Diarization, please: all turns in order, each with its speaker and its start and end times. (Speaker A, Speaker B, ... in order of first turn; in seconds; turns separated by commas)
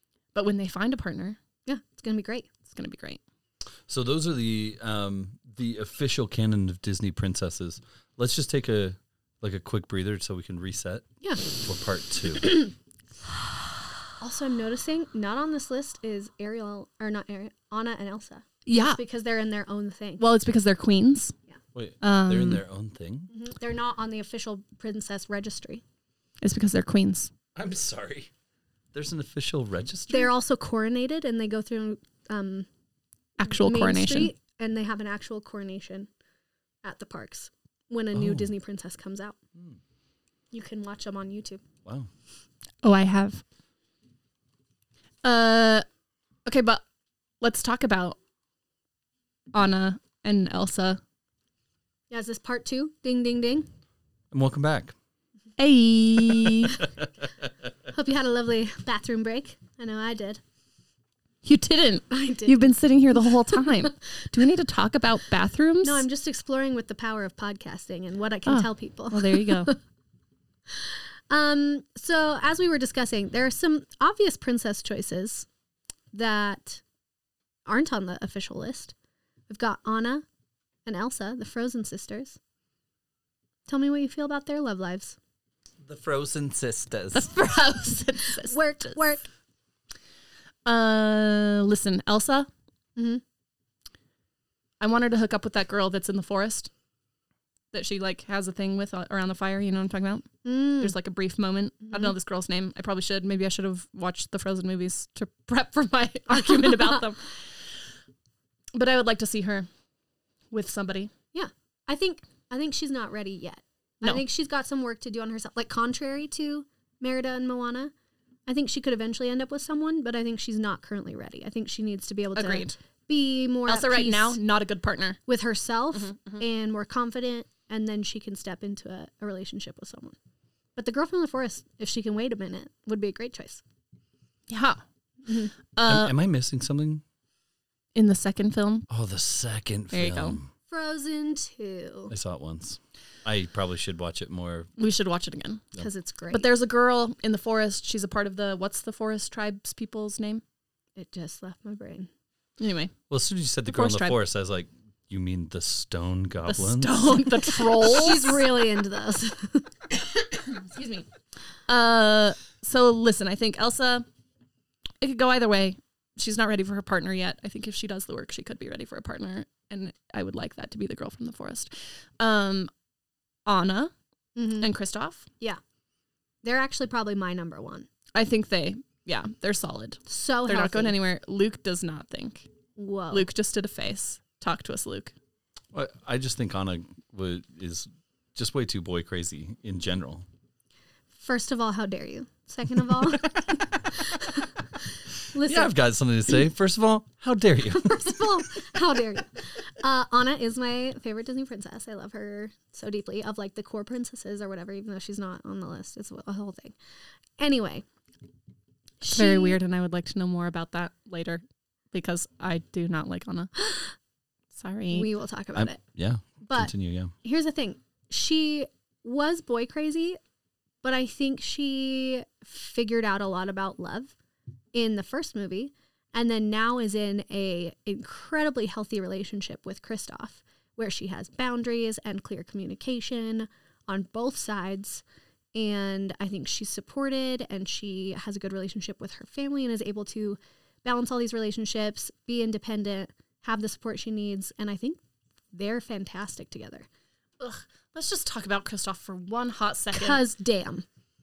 Speaker A: 0.3-1.4, Speaker B: 1.7-2.5, Speaker A: 2.6-3.2, Speaker C: 3.9-12.6, Speaker B: 14.2-20.2, Speaker A: 18.6-19.0, Speaker A: 20.2-21.3, Speaker C: 21.7-23.3, Speaker A: 22.0-22.6, Speaker B: 23.3-25.8, Speaker A: 26.4-27.3, Speaker C: 27.5-28.3, Speaker C: 28.9-30.3, Speaker B: 30.1-32.7, Speaker A: 33.4-34.3, Speaker B: 33.4-36.1, Speaker B: 36.8-39.4, Speaker C: 38.1-38.5, Speaker B: 40.5-41.6, Speaker A: 42.8-43.4, Speaker A: 45.2-45.8, Speaker A: 46.4-46.8, Speaker A: 47.4-48.2, Speaker A: 49.5-51.0, Speaker B: 52.1-53.7, Speaker C: 54.3-54.9, Speaker A: 55.6-56.8, Speaker B: 57.9-60.4, Speaker A: 61.4-66.0, Speaker B: 62.1-62.7, Speaker B: 65.8-69.8, Speaker A: 68.5-69.7, Speaker B: 71.3-75.5, Speaker B: 76.1-76.8, Speaker B: 77.7-78.9, Speaker B: 79.5-80.2, Speaker B: 80.8-82.4, Speaker B: 83.7-85.2, Speaker C: 85.8-87.3, Speaker A: 87.1-89.0, Speaker B: 88.4-89.3, Speaker A: 90.7-92.5, Speaker B: 93.0-93.2, Speaker A: 94.8-96.7, Speaker A: 97.7-107.3, Speaker B: 100.4-100.9, Speaker B: 106.3-107.0, Speaker A: 108.7-109.7, Speaker A: 110.5-111.1, Speaker B: 111.3-117.9, Speaker B: 118.5-124.4, Speaker A: 122.3-122.8, Speaker A: 123.7-125.2, Speaker B: 125.3-130.2, Speaker A: 125.9-126.4, Speaker B: 130.8-133.6, Speaker A: 134.5-134.8, Speaker B: 135.2-135.5, Speaker A: 135.8-136.1, Speaker C: 135.8-137.0, Speaker A: 137.9-138.9, Speaker C: 138.9-140.5, Speaker A: 139.9-140.4, Speaker B: 140.7-142.1, Speaker C: 142.1-144.7, Speaker A: 144.8-145.6, Speaker B: 145.8-146.5, Speaker A: 146.3-150.4, Speaker B: 150.9-152.1, Speaker A: 152.6-152.9, Speaker C: 153.1-157.2, Speaker A: 153.7-154.2, Speaker A: 156.5-158.5, Speaker B: 157.7-159.7, Speaker A: 160.4-161.1, Speaker A: 161.7-164.1, Speaker A: 165.0-172.7, Speaker A: 173.4-173.9, Speaker B: 174.3-174.7, Speaker A: 174.6-175.3, Speaker B: 176.4-177.9, Speaker A: 178.1-182.5, Speaker B: 180.1-180.9, Speaker B: 182.8-183.3, Speaker A: 183.1-185.1, Speaker C: 185.7-190.2, Speaker B: 191.2-194.5, Speaker B: 195.3-195.7, Speaker C: 195.4-198.4, Speaker B: 197.8-206.7, Speaker B: 207.4-207.8, Speaker B: 209.0-209.6, Speaker A: 209.1-213.8, Speaker A: 214.5-215.1, Speaker B: 214.9-215.8, Speaker C: 215.5-217.1, Speaker B: 216.4-220.2, Speaker B: 220.8-224.1, Speaker B: 224.7-235.0, Speaker B: 235.5-245.0, Speaker B: 245.5-246.9, Speaker A: 247.4-250.2, Speaker B: 249.9-250.8